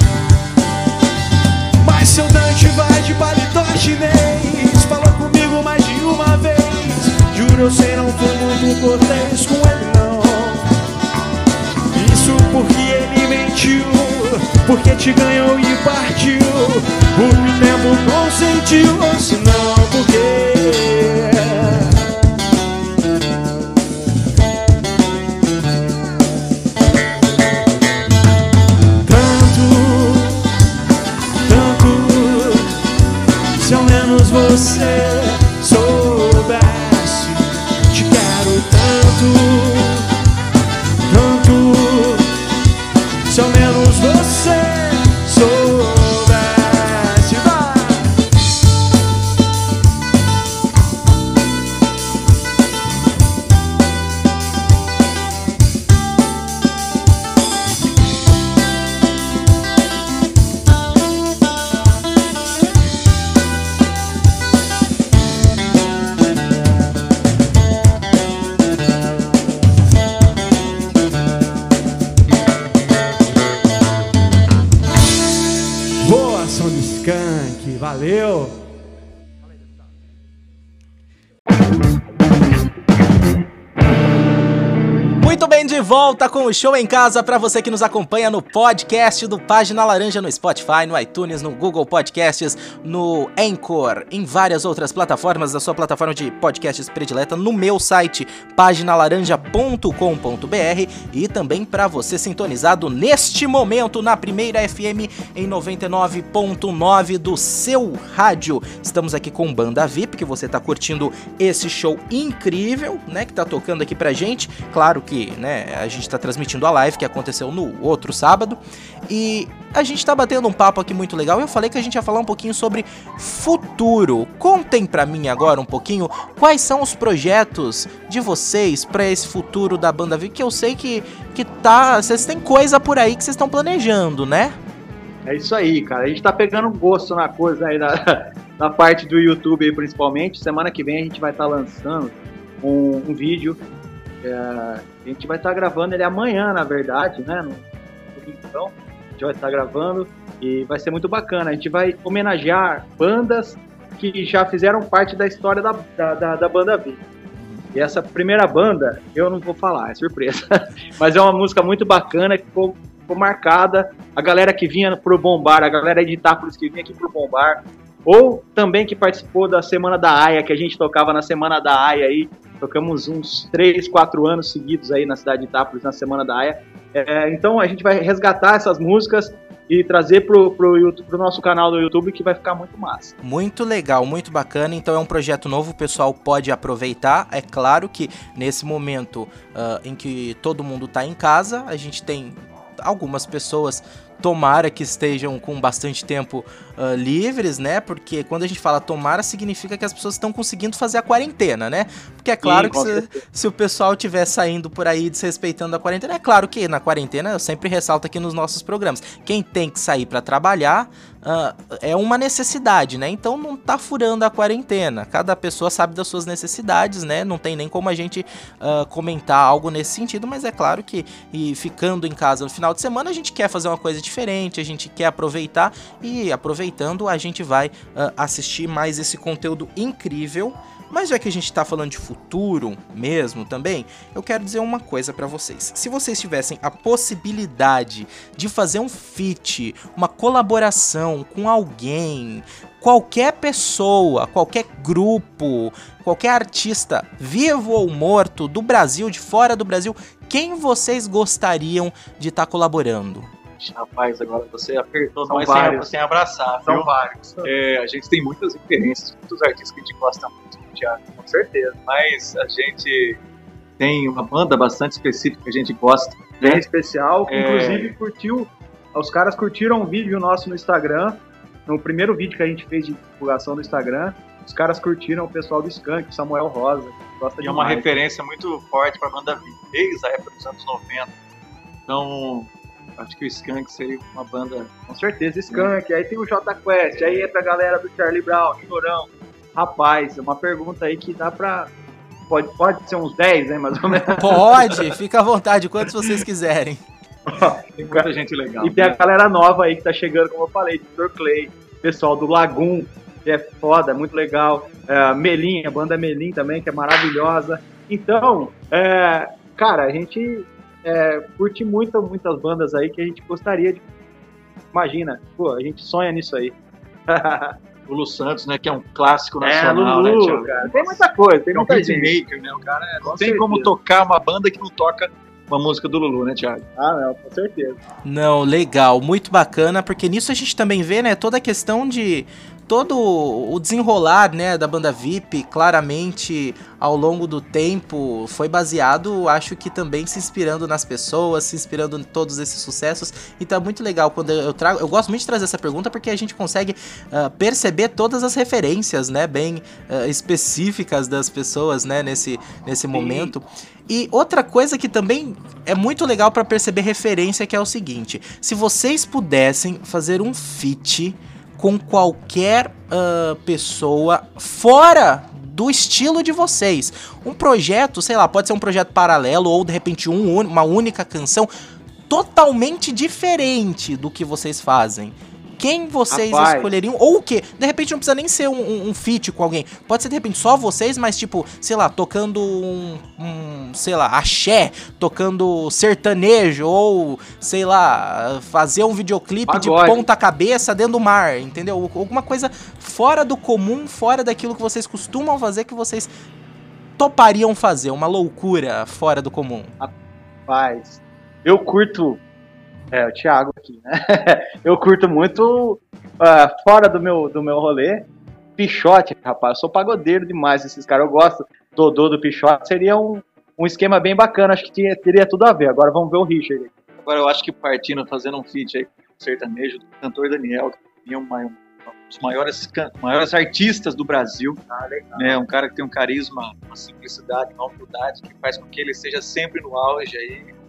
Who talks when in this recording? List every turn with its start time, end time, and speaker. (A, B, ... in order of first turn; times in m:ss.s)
0:01.8-0:10.7 A
0:11.9-0:22.0 A
0:29.0-0:30.5 A
0:31.4-0:32.8 A
0:33.6-0:40.1 A
0:41.1-0:42.3 A
0:43.2-0:48.2 A
1:16.0-1:18.6 A
1:25.2-2:14.6 B
2:15.2-2:23.6 C
2:24.2-2:37.0 C
2:37.7-3:03.1 C
3:03.2-4:13.3 B
3:22.4-3:23.1 C
4:13.6-4:23.2 D
4:15.3-4:15.9 C
4:16.6-4:17.5 C
4:21.3-4:21.7 C
4:23.8-4:26.6 D
4:26.4-4:37.9 C
4:27.3-4:27.9 D
4:37.4-4:41.1 D
4:41.9-4:44.8 D
4:44.9-4:51.7 C
4:52.3-4:54.8 C
4:54.2-4:56.8 B
4:57.3-4:58.1 C
4:57.4-4:59.0 D
4:58.6-5:13.8 C
5:14.7-5:16.5 C
5:17.1-5:17.6 C
5:17.9-5:26.6 D
5:19.4-5:22.1 C
5:23.0-5:23.7 C
5:26.8-5:27.8 C
5:28.0-6:11.5 B
5:52.9-5:53.3 C
6:12.1-6:36.1 B
6:16.1-6:16.7 C
6:29.5-6:30.0 C
6:37.0-6:39.7 B
6:40.5-6:42.2 C
6:42.9-6:56.7 C
6:57.0-7:04.6 D
7:04.7-7:05.4 C
7:05.2-7:10.5 D